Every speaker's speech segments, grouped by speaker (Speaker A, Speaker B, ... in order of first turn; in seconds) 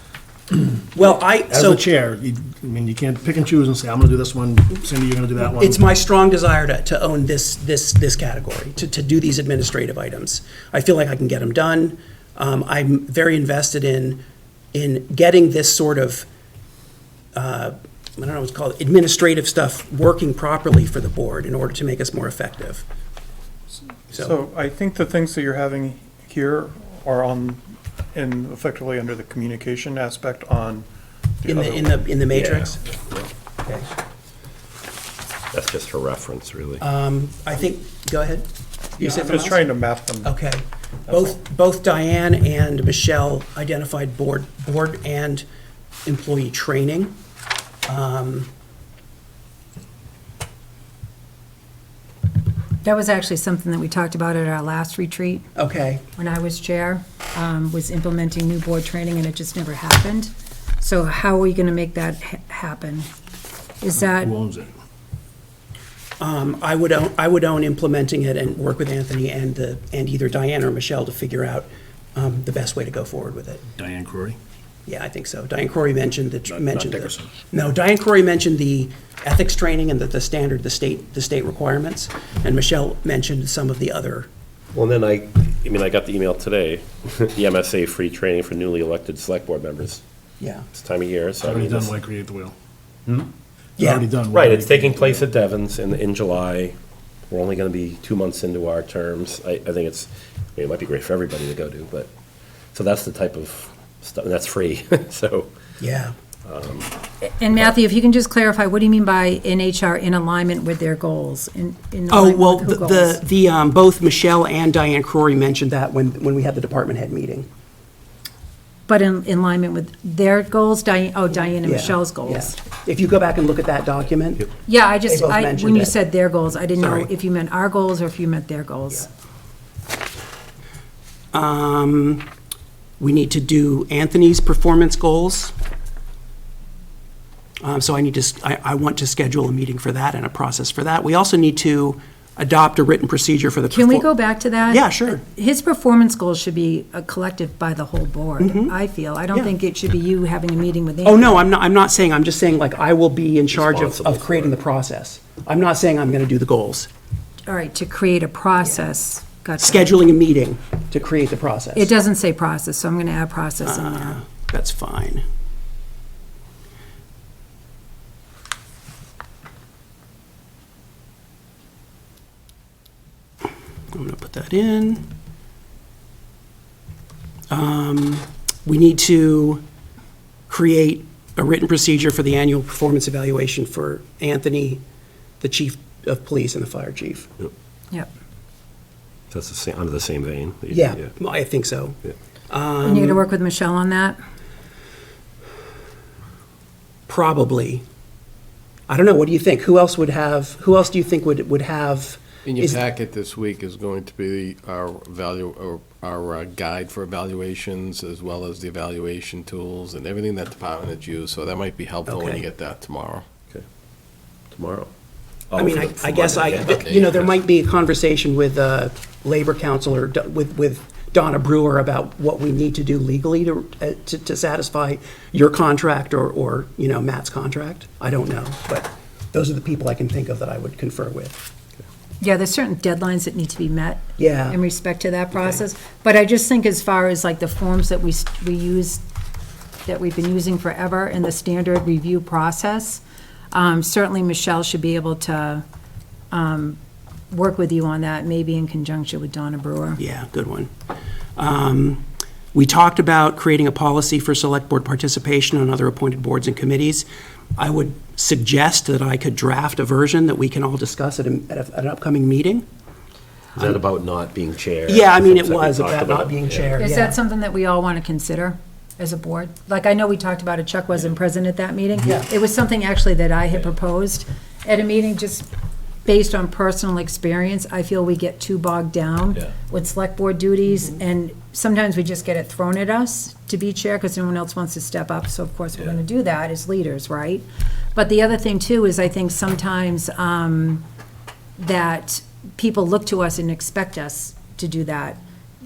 Speaker A: 0.5-5.8, 64.0-64.7, 73.7-74.4, 76.5-77.3, 91.4-92.5, 93.8-95.2
Speaker B: 0.9-1.8, 5.5-14.2, 14.7-16.3, 17.3-22.8, 31.4-32.8, 33.6-33.9, 36.8-38.5, 39.0-39.6, 40.2-45.4, 46.0-47.1, 47.9-48.5, 55.5-56.0, 66.2-73.6, 74.8-84.3, 90.4-90.7, 93.8-94.0, 105.8-106.1, 112.1-117.5, 121.6-124.5, 125.1-126.0, 126.8-127.1, 131.3-132.2, 133.0-135.5, 137.6-144.1, 144.7-145.2, 148.4-148.8, 151.0-156.9, 159.6-161.9, 163.6-165.2, 173.9-175.0, 177.5-179.6, 180.5-184.8, 185.4-187.3, 190.7-193.2, 197.1-197.8, 198.9-202.8, 212.1-212.4, 215.5-231.4, 234.2-234.6, 250.0-250.7, 251.4-257.1, 257.6-262.6, 264.9-267.2, 272.0-272.3
Speaker C: 24.1-27.6, 28.1-30.9, 31.4-32.7, 39.0-40.3
Speaker D: 35.5-36.8, 84.7-90.0, 90.7-91.9, 94.3-96.8, 97.3-102.1, 102.7-105.5, 106.4-106.9, 153.5-154.5, 189.3-191.1, 214.5-214.9, 215.5-217.2, 263.6-266.8
Speaker E: 52.8-55.5, 56.1-63.1, 63.8-64.3, 107.2-113.2, 118.9-122.6, 124.7-129.1, 143.7-151.4, 157.5-159.9, 161.7-164.2, 192.8-194.2, 232.2-239.0, 239.8-245.6, 246.3-246.8, 247.3-250.0, 266.8-275.5, 276.1-290.8, 291.6-295.2
Speaker F: 202.4-213.3